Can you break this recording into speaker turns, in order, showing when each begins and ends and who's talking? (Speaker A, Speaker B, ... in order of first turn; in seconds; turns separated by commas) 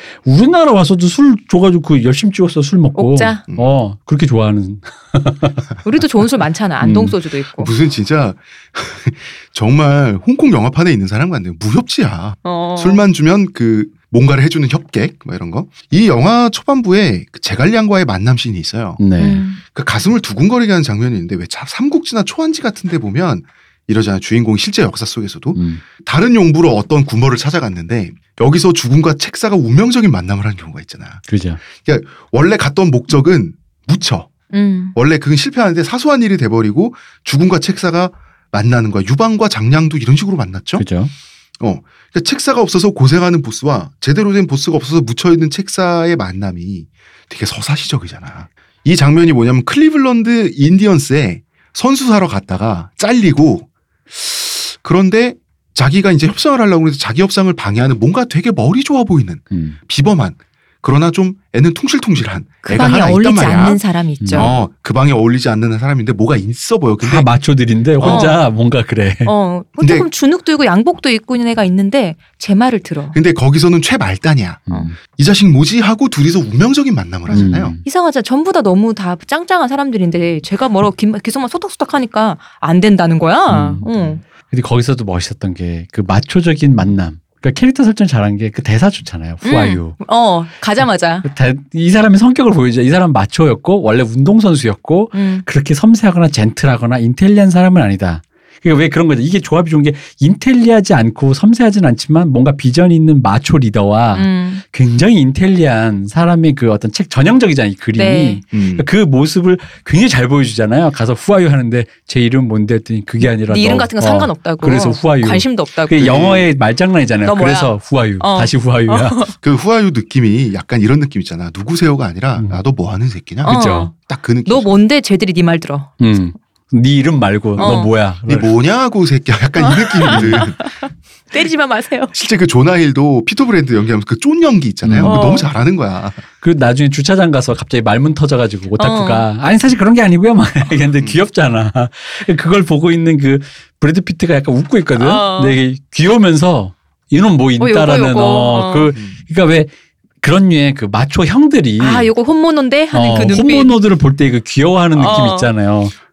Speaker A: 0.2-5.6, Speaker B: 3.0-3.4, Speaker B: 5.8-7.7, Speaker A: 6.8-7.2, Speaker C: 7.6-19.0, Speaker B: 12.4-13.0, Speaker A: 19.0-19.5, Speaker B: 19.2-19.6, Speaker C: 19.6-31.2, Speaker A: 25.6-25.8, Speaker A: 31.3-31.6, Speaker C: 31.8-34.4, Speaker B: 34.5-35.0, Speaker C: 35.0-40.9, Speaker A: 40.8-41.1, Speaker C: 41.6-63.8, Speaker A: 59.5-59.8, Speaker B: 62.6-64.5, Speaker A: 64.2-64.5, Speaker C: 64.3-67.3, Speaker A: 67.0-69.3, Speaker C: 68.0-68.3, Speaker B: 68.0-68.4, Speaker B: 69.3-73.2, Speaker C: 69.8-70.1, Speaker C: 73.1-77.7, Speaker A: 74.7-75.0, Speaker A: 77.3-77.8, Speaker B: 77.4-84.2, Speaker A: 83.5-90.0, Speaker B: 89.4-91.3, Speaker A: 91.2-119.2, Speaker B: 95.1-95.5, Speaker B: 104.2-104.6, Speaker B: 108.0-108.4, Speaker C: 108.5-108.9, Speaker B: 113.4-116.3, Speaker C: 116.0-116.5, Speaker B: 117.2-119.3, Speaker C: 119.4-124.8, Speaker A: 122.4-122.6, Speaker A: 123.4-123.9, Speaker B: 123.4-125.9, Speaker A: 126.0-128.5, Speaker C: 127.6-130.7, Speaker B: 127.6-127.9, Speaker B: 129.6-132.1, Speaker A: 130.1-130.4, Speaker C: 132.1-136.2, Speaker A: 134.8-135.2, Speaker B: 135.0-135.5, Speaker A: 136.4-149.7, Speaker B: 138.8-139.3, Speaker B: 145.0-145.6, Speaker B: 147.6-148.9, Speaker A: 150.2-152.1, Speaker B: 151.8-153.8, Speaker A: 152.9-155.9, Speaker B: 154.9-155.5